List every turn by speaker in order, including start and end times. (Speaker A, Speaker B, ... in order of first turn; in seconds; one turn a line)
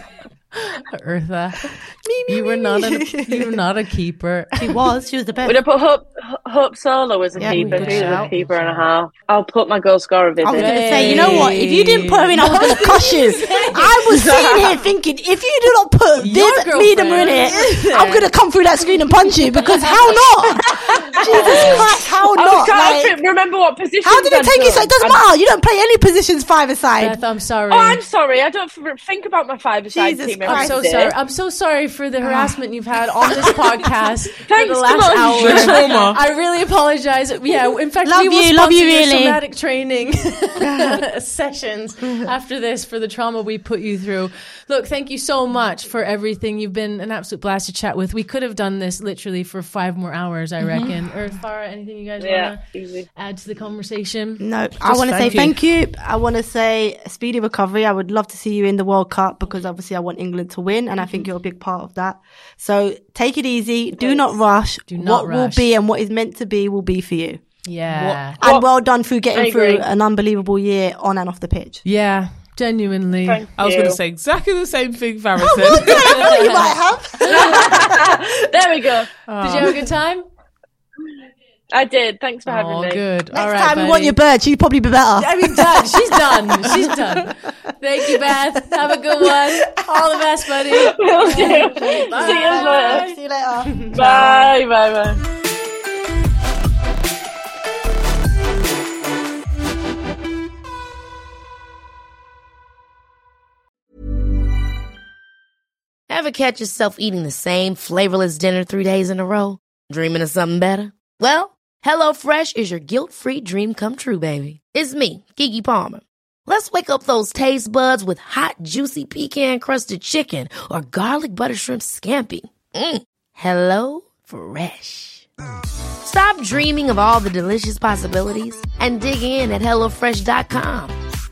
Speaker A: 0.6-1.7
Speaker B: 2.0-3.5
Speaker A: 2.3-4.7
Speaker B: 4.5-5.6
Speaker C: 5.4-11.5
Speaker B: 7.4-8.3
Speaker A: 7.4-8.9
Speaker B: 10.4-23.2
Speaker A: 10.5-14.1
Speaker C: 14.1-14.8
Speaker A: 16.2-18.3
Speaker A: 19.3-21.9
Speaker C: 20.7-25.2
Speaker B: 24.0-27.2
Speaker A: 27.0-28.0
Speaker C: 27.7-31.1
Speaker B: 29.9-30.8
Speaker A: 30.4-52.6
Speaker B: 32.2-32.5
Speaker C: 34.5-36.1
Speaker D: 35.3-36.2
Speaker B: 38.0-39.4
Speaker B: 40.6-41.0
Speaker C: 52.2-53.1
Speaker A: 53.1-55.5
Speaker B: 54.4-67.4
Speaker D: 55.0-55.5
Speaker A: 61.0-61.3
Speaker A: 64.9-65.7
Speaker A: 67.6-68.4
Speaker D: 67.9-68.4
Speaker B: 68.4-71.8
Speaker C: 69.3-69.8
Speaker A: 71.8-73.4
Speaker C: 73.3-74.0
Speaker D: 73.6-76.5
Speaker B: 75.4-78.3
Speaker A: 75.7-77.6
Speaker C: 77.3-79.1
Speaker D: 79.3-79.8
Speaker A: 79.4-80.3
Speaker C: 81.7-83.0
Speaker A: 82.5-84.2
Speaker B: 83.3-85.7
Speaker A: 85.2-93.2
Speaker C: 90.9-93.0
Speaker B: 91.3-94.5
Speaker C: 93.9-95.2
Speaker E: 106.1-125.3
Speaker E: 126.0-130.9